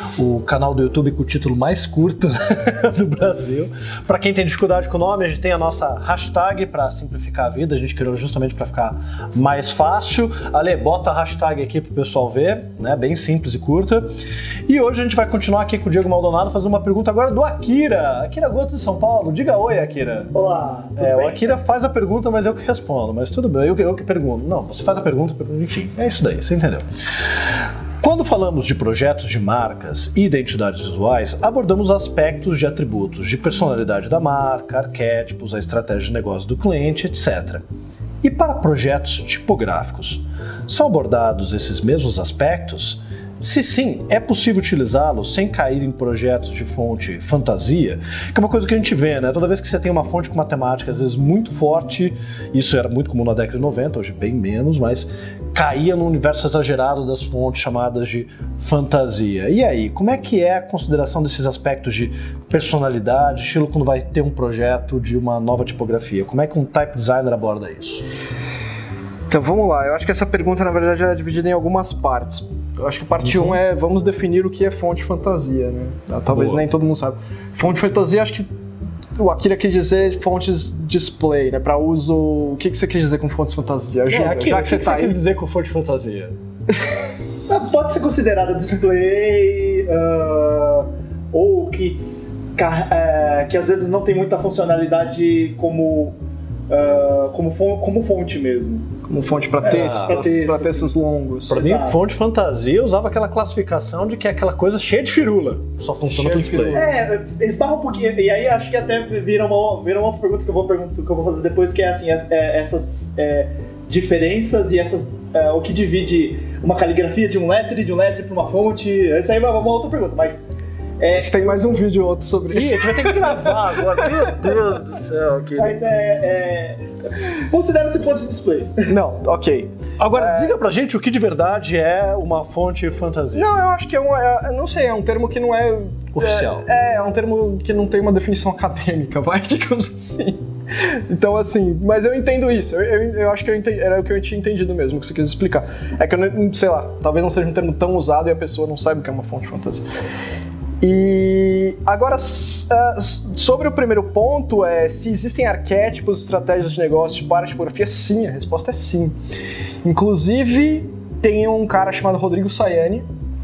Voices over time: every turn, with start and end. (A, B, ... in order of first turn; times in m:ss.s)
0:00.2-0:14.1 A
0:14.7-0:20.3 A
0:20.3-0:21.5 B
0:21.0-0:26.8 A
0:28.0-0:37.6 A
0:38.2-1:08.0 A
1:09.3-1:18.5 C
1:13.2-1:13.6 A
1:16.3-1:16.6 A
1:19.2-1:25.2 C
1:24.1-1:26.3 A
1:27.5-1:32.0 B
1:32.6-1:36.2 B
1:36.7-1:38.9 B
1:39.1-1:41.6 C
1:39.6-1:40.9 B
1:39.7-1:40.1 A
1:41.5-1:46.8 A
1:41.5-1:42.0 B
1:46.0-1:46.9 C
1:46.7-2:00.4 B
2:01.0-2:01.7 B
2:01.1-2:04.3 C
2:02.5-2:05.8 A
2:05.6-2:08.9 B
2:08.9-2:10.6 C
2:10.0-2:13.5 A
2:13.3-2:29.8 C
2:16.1-2:16.6 A
2:30.8-2:39.1 C
2:39.8-2:43.0 C